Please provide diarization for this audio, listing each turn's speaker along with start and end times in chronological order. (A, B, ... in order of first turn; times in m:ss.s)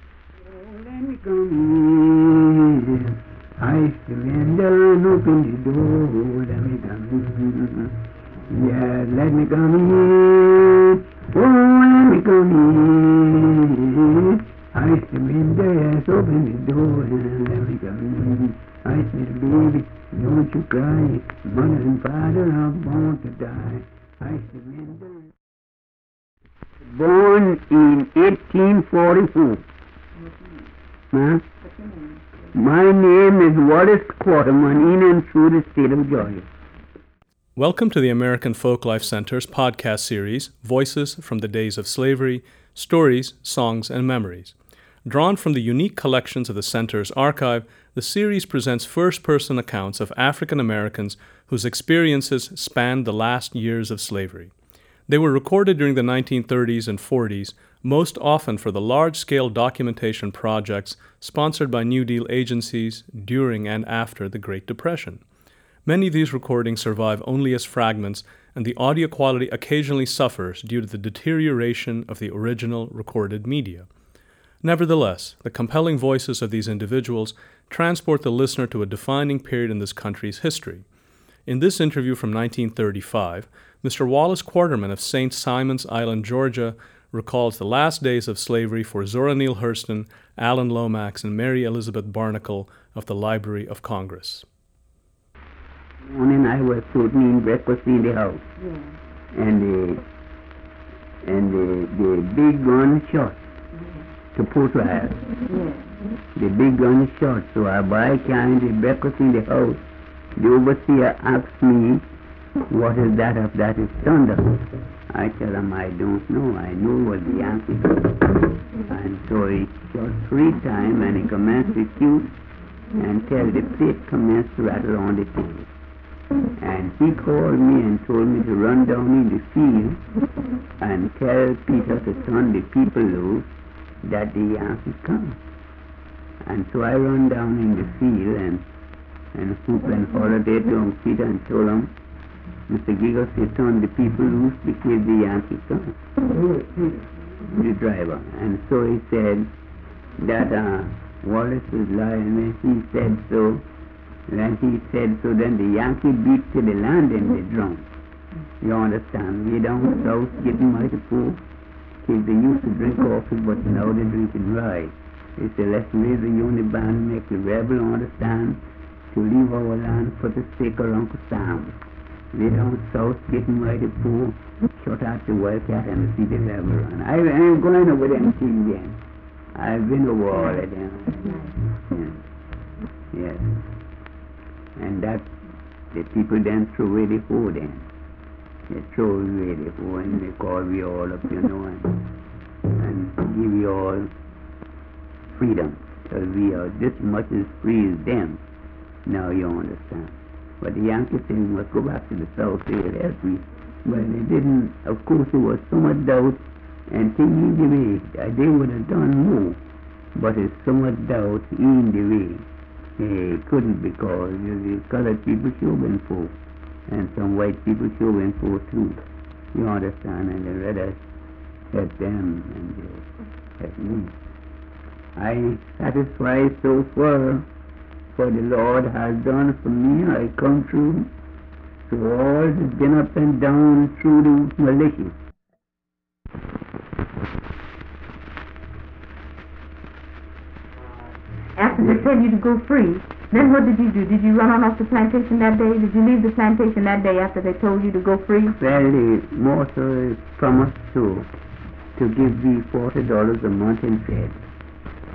0:00.4-0:08.0 A
0:08.5-0:25.3 A
0:26.8-0:29.6 A
0:30.2-0:30.6 B
0:31.1-0:31.4 A
0:31.6-0:32.2 B
0:32.5-0:36.5 A
0:37.6-0:44.5 C
0:45.0-0:54.5 C
0:55.1-1:05.2 C
1:05.8-1:13.9 C
1:14.6-1:20.8 C
1:21.5-1:34.4 C
1:36.0-1:38.4 A
1:38.6-1:38.9 B
1:39.3-1:40.0 A
1:41.2-1:43.4 A
1:43.8-1:44.0 B
1:44.3-1:45.3 A
1:45.4-1:45.9 B
1:46.3-1:49.8 A
1:50.4-1:52.0 A
1:52.7-2:02.3 A
2:02.9-2:05.7 A
2:06.6-2:10.0 A
2:10.8-2:13.5 A
2:14.0-2:15.4 A
2:16.4-2:18.6 A
2:19.3-2:21.9 A
2:22.7-2:26.0 A
2:27.4-2:29.5 A
2:30.2-2:33.6 A
2:34.3-2:37.8 A
2:38.6-2:41.4 A
2:42.0-2:48.6 A
2:49.1-2:51.8 A
2:52.3-2:59.0 A
2:59.5-3:02.2 A
3:00.3-3:00.6 B
3:01.2-3:01.5 B
3:03.1-3:03.6 A
3:04.8-3:05.3 A
3:05.9-3:07.8 A
3:08.7-3:12.1 A
3:12.8-3:14.1 A
3:15.3-3:18.4 A
3:19.0-3:29.6 A
3:30.1-3:32.5 A
3:33.0-3:36.3 A
3:36.9-3:39.0 A
3:39.5-3:41.0 A
3:41.7-3:43.1 A
3:43.6-3:44.1 A
3:45.2-3:47.4 A
3:48.1-3:51.1 A
3:51.9-3:55.1 A
4:01.6-4:08.5 B
4:08.6-4:11.3 A
4:12.0-4:14.4 A